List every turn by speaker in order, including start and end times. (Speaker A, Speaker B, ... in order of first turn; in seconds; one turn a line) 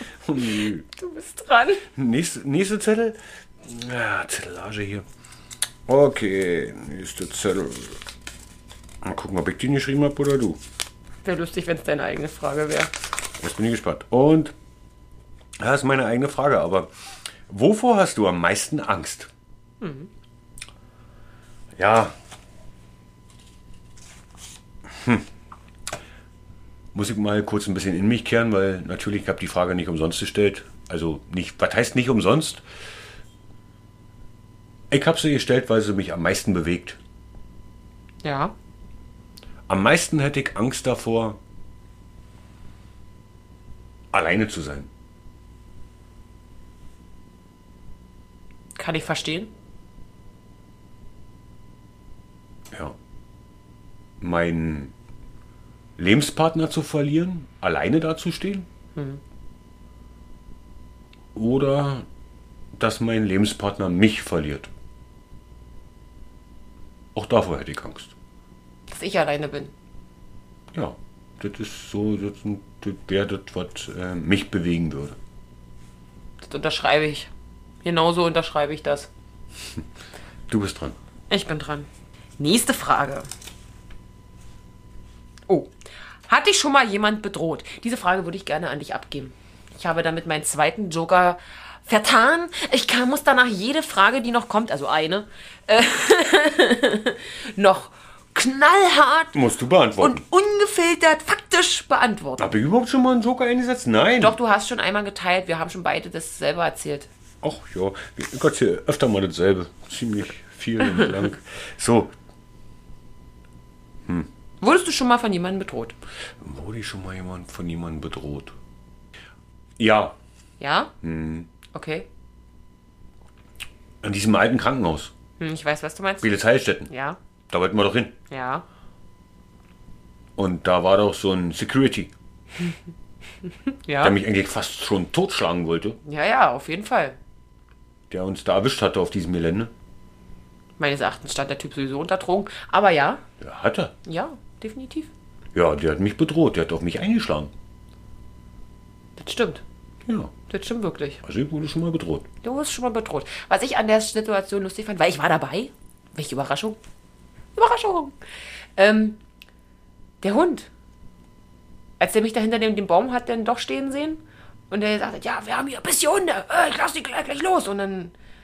Speaker A: 0.2-0.8
Speaker B: 0.9-1.9
Speaker A: 2.0-5.0
Speaker A: 5.9-8.0
Speaker A: 9.0-10.6
Speaker B: 11.2-12.9
Speaker A: 13.4-14.5
Speaker A: 15.6-16.9
Speaker A: 17.5-19.3
Speaker B: 19.8-20.1
Speaker A: 21.8-22.1
Speaker A: 24.9-25.3
Speaker A: 26.9-32.6
Speaker A: 34.9-37.0
Speaker B: 38.2-38.5
Speaker A: 39.7-41.4
Speaker A: 44.1-44.9
Speaker B: 48.8-49.5
Speaker A: 54.2-54.9
Speaker A: 56.0-58.7
Speaker B: 59.0-59.2
Speaker A: 61.4-62.1
Speaker A: 62.8-64.7
Speaker A: 67.2-68.1
Speaker B: 68.9-69.7
Speaker A: 70.7-75.2
Speaker B: 76.4-77.3
Speaker B: 77.8-79.1
Speaker A: 80.5-81.0
Speaker B: 81.3-81.9
Speaker B: 82.4-83.3
Speaker B: 86.3-99.4
Speaker A: 99.3-100.2
Speaker B: 100.0-102.5
Speaker A: 102.4-104.4
Speaker B: 104.2-107.1
Speaker A: 107.4-112.1
Speaker B: 114.6-116.0
Speaker A: 116.4-118.5
Speaker A: 119.8-120.2
Speaker B: 120.6-120.9
Speaker A: 121.0-121.5
Speaker B: 121.7-122.1
Speaker A: 124.0-125.1
Speaker B: 125.4-126.3
Speaker A: 126.2-126.9
Speaker B: 126.9-127.2
Speaker A: 127.5-128.2
Speaker B: 128.3-128.6
Speaker A: 130.4-132.1
Speaker B: 133.8-134.2
Speaker A: 134.0-136.0
Speaker B: 136.1-137.2
Speaker A: 138.1-139.7
Speaker B: 140.8-143.2
Speaker A: 143.4-143.9
Speaker B: 144.1-145.1
Speaker A: 145.5-147.5
Speaker B: 149.2-149.6
Speaker A: 150.1-150.3
Speaker B: 150.5-151.2
Speaker A: 151.2-152.3
Speaker B: 152.4-156.8
Speaker B: 157.6-158.1
Speaker B: 158.8-159.2
Speaker B: 160.2-160.7
Speaker B: 162.0-168.1